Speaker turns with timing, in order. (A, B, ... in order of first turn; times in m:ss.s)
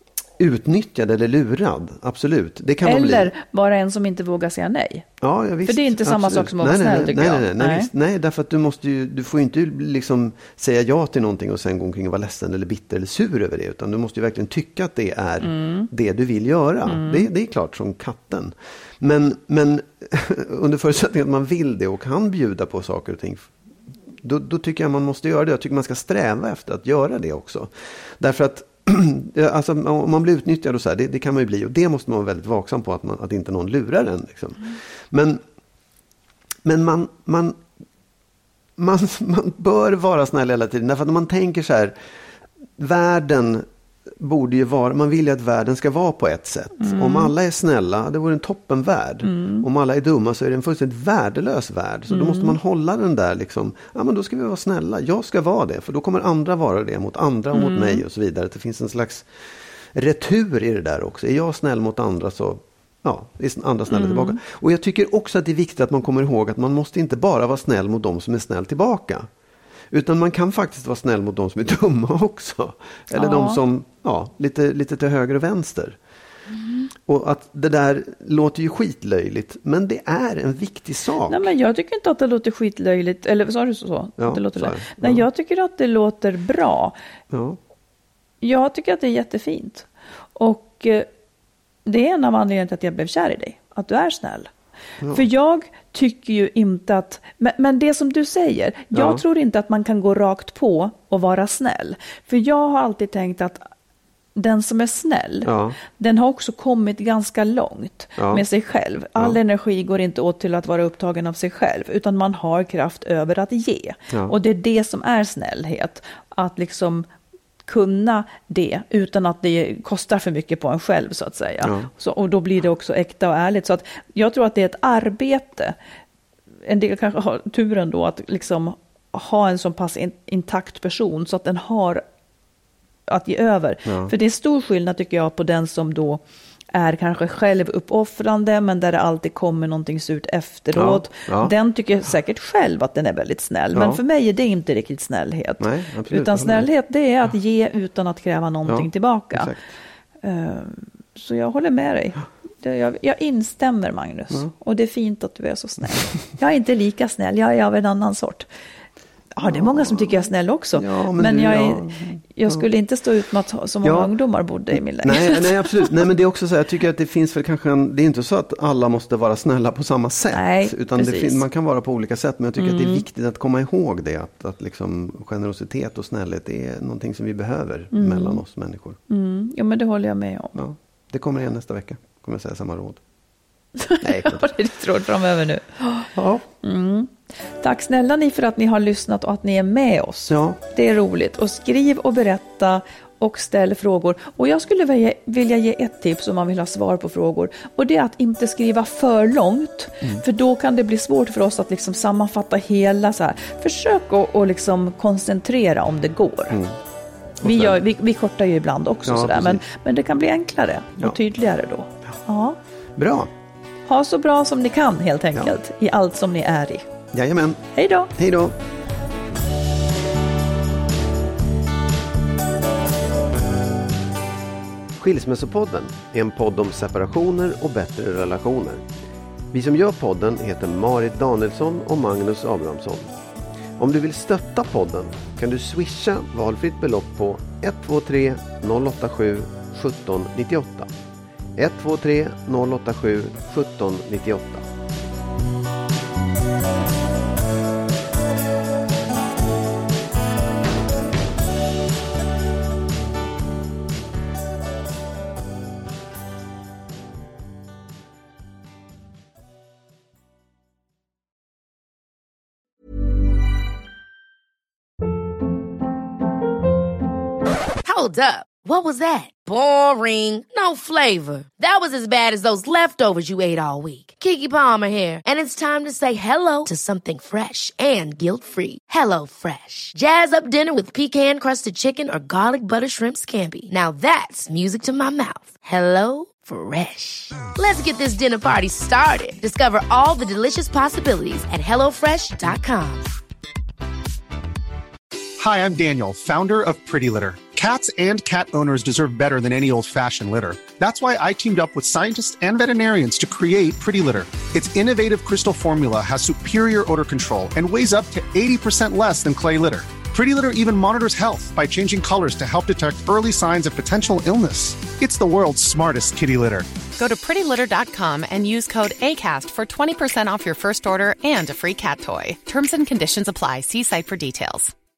0:00.4-0:03.3 A
0:02.8-0:05.1 B
0:05.2-0:23.5 A
0:05.6-0:07.9 B
0:15.4-0:15.9 B
0:16.9-0:17.3 B
0:24.2-0:35.4 A
0:36.6-0:37.6 A
0:38.8-0:42.0 A
0:42.8-0:43.7 A
0:44.2-0:59.3 A
0:46.8-0:47.3 B
0:49.2-0:49.6 B
0:52.1-0:52.6 B
0:57.5-0:58.0 B
0:59.9-1:09.3 A
1:03.9-1:04.4 B
1:09.9-1:16.0 A
1:13.1-1:13.6 B
1:17.1-1:21.5 A
1:21.3-1:27.0 B
1:24.2-1:25.2 A
1:27.3-1:27.6 A
1:28.4-1:31.1 B
1:31.8-1:34.5 B
1:35.1-1:43.6 B
1:38.9-1:39.2 A
1:44.4-1:57.1 B
1:45.4-1:45.8 A
1:48.2-1:48.4 A
1:57.6-2:05.8 B
2:01.6-2:01.9 A
2:06.7-2:12.0 B
2:13.1-2:16.2 B
2:13.9-2:14.1 A
2:16.7-2:29.5 B
2:20.7-2:21.6 A
2:23.7-2:24.0 A
2:25.6-2:26.7 A
2:28.6-2:29.7 A
2:30.2-2:38.5 B
2:39.3-2:45.9 B
2:39.4-2:40.2 A
2:40.8-2:42.6 A
2:43.8-2:44.1 A
2:44.7-2:59.0 A
2:50.3-2:51.4 B
2:52.6-2:53.0 B
2:57.9-2:58.4 B
2:59.1-3:00.6 B
3:00.6-3:03.0 A
3:03.8-3:06.1 B
3:04.0-3:04.5 A
3:06.2-3:06.4 A
3:06.6-3:26.6 B
3:10.3-3:10.6 A
3:26.5-3:26.8 A
3:27.4-3:27.8 A
3:27.4-3:32.6 B
3:29.1-3:29.6 A
3:33.0-3:33.3 A
3:33.9-3:36.8 B
3:37.1-3:37.6 A
3:37.8-3:38.1 B
3:38.2-3:38.6 A
3:45.0-3:48.9 A
3:49.5-3:53.1 A
3:53.8-4:00.9 A
4:01.6-4:04.7 A
4:27.8-4:53.1 C
4:55.4-5:16.7 D
5:17.0-5:24.7 E